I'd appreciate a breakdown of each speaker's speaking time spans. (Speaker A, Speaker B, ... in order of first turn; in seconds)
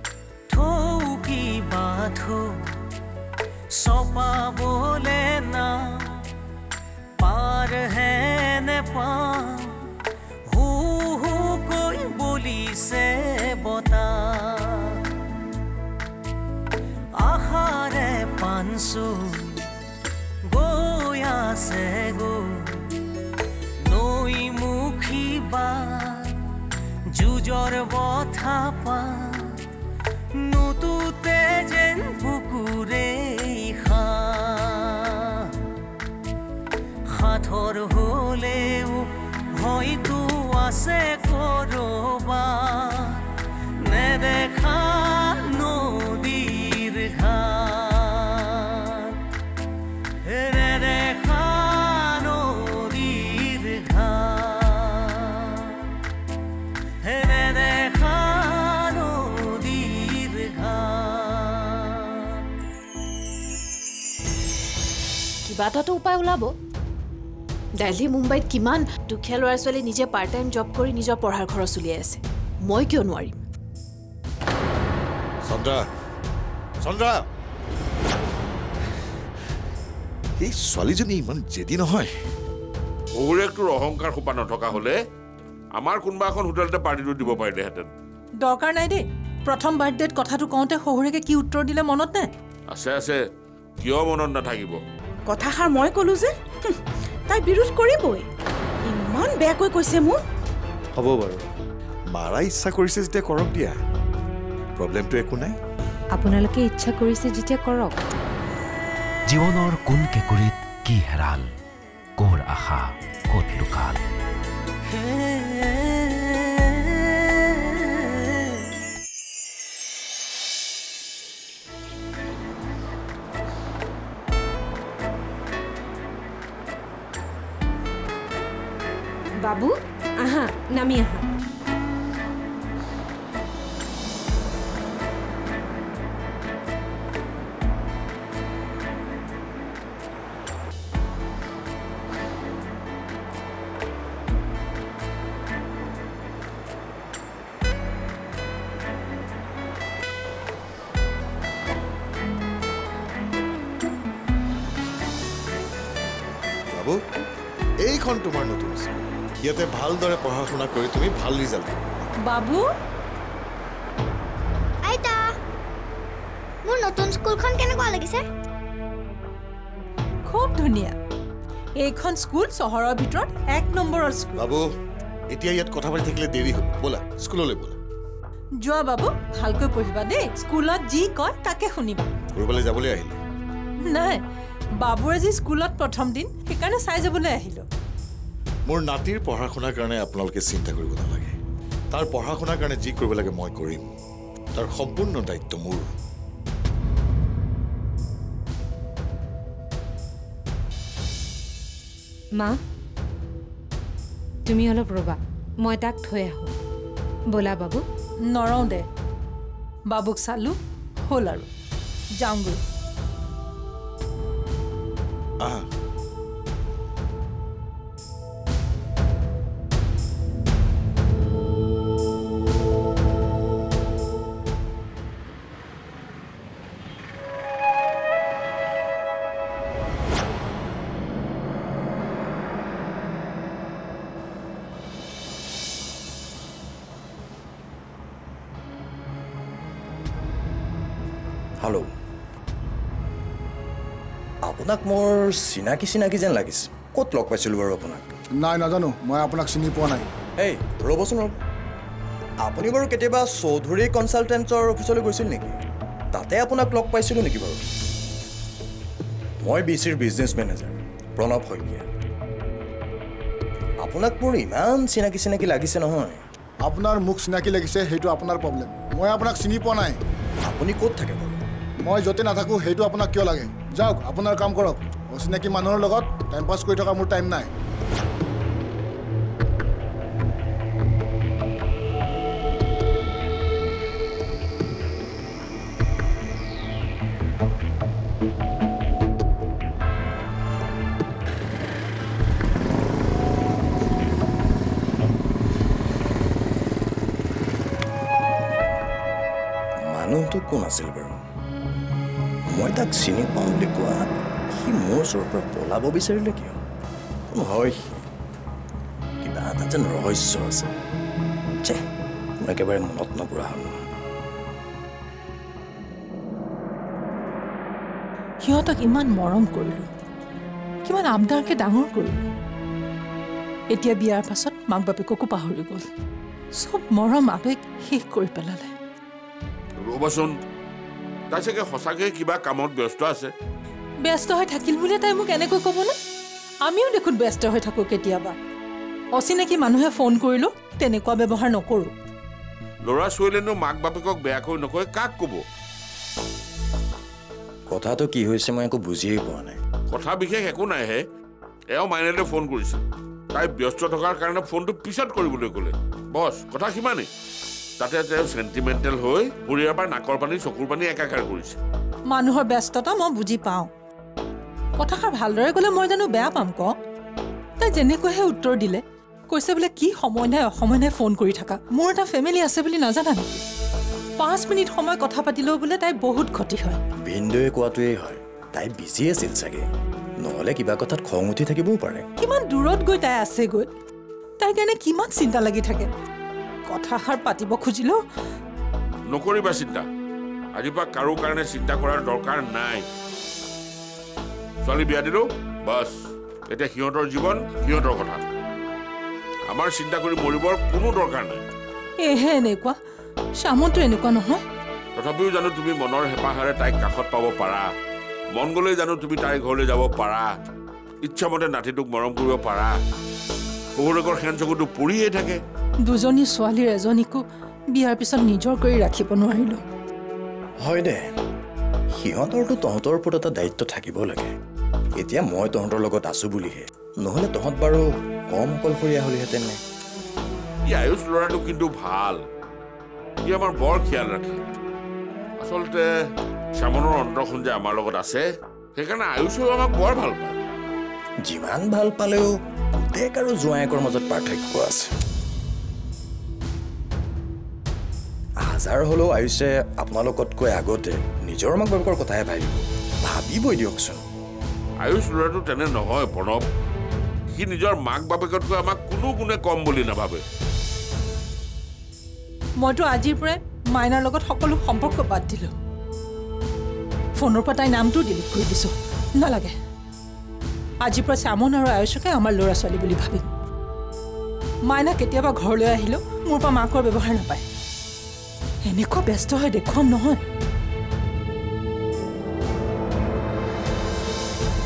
Speaker A: 0.5-2.6, 3.7-6.2, 7.2-9.8, 10.5-15.0, 17.2-19.7, 20.4-22.9, 23.8-26.4, 27.1-29.6, 30.4-35.3, 37.1-43.2, 43.8-49.1, 50.2-55.6, 57.0-61.9
Speaker B: 65.5-66.5, 67.8-73.4
Speaker C: 75.5-75.8, 76.8-77.2, 80.4-82.1, 100.9-101.4, 102.1-103.8, 104.8-105.6, 156.7-157.0, 157.8-161.8, 174.4-174.7, 175.3-177.8, 182.3-183.2, 188.7-191.3, 191.9-193.8, 194.5-195.9, 215.4-215.7
Speaker D: 83.2-85.0, 85.8-87.9, 92.7-93.2, 93.8-94.8, 329.8-330.3, 331.3-333.3, 342.8-345.4, 349.9-351.0, 351.7-357.1, 357.8-361.6, 389.1-389.9, 390.5-392.9, 394.6-395.9, 396.5-398.2, 399.5-401.4, 404.9-407.7, 408.3-410.3, 411.0-412.7, 413.8-415.4, 430.6-432.2, 433.2-434.4, 435.4-435.9, 436.6-440.4, 454.8-456.4, 457.3-460.2
Speaker E: 88.4-92.3, 162.2-162.7, 170.2-170.9, 171.8-174.4, 178.6-182.1, 183.9-184.2, 184.8-187.6, 208.3-208.8, 209.9-210.6, 211.1-211.5, 212.2-212.6, 318.4-319.9, 320.8-322.2, 323.7-325.9, 326.5-328.7, 334.0-335.9, 336.6-338.3, 339.1-341.9, 362.1-363.7, 364.8-366.7, 367.6-373.4, 374.2-376.8, 382.2-383.7, 384.4-385.9, 386.7-388.0, 402.0-402.8, 403.4-404.4, 415.8-419.6, 462.6-465.5, 467.2-469.5, 470.8-473.3, 474.7-477.4, 478.6-480.2
Speaker F: 95.3-96.8, 97.3-98.2, 98.9-100.2
Speaker G: 106.1-107.9, 129.4-131.2, 204.4-206.5, 207.3-207.8
Speaker H: 109.3-111.5, 112.2-114.0
Speaker I: 164.8-165.3, 166.6-168.2
Speaker J: 241.6-241.9, 244.4-248.1, 250.4-251.4, 252.4-255.6, 256.1-257.6, 259.4-261.9, 263.8-266.2, 270.4-271.4, 299.9-301.2, 302.5-306.6, 307.3-308.0, 309.2-310.8, 312.4-313.7, 347.7-349.6, 377.1-379.6, 380.2-382.0, 420.6-421.1, 421.9-424.3, 425.0-429.6, 441.2-444.9, 448.4-454.0
Speaker K: 248.4-250.1, 266.6-270.0, 271.8-277.5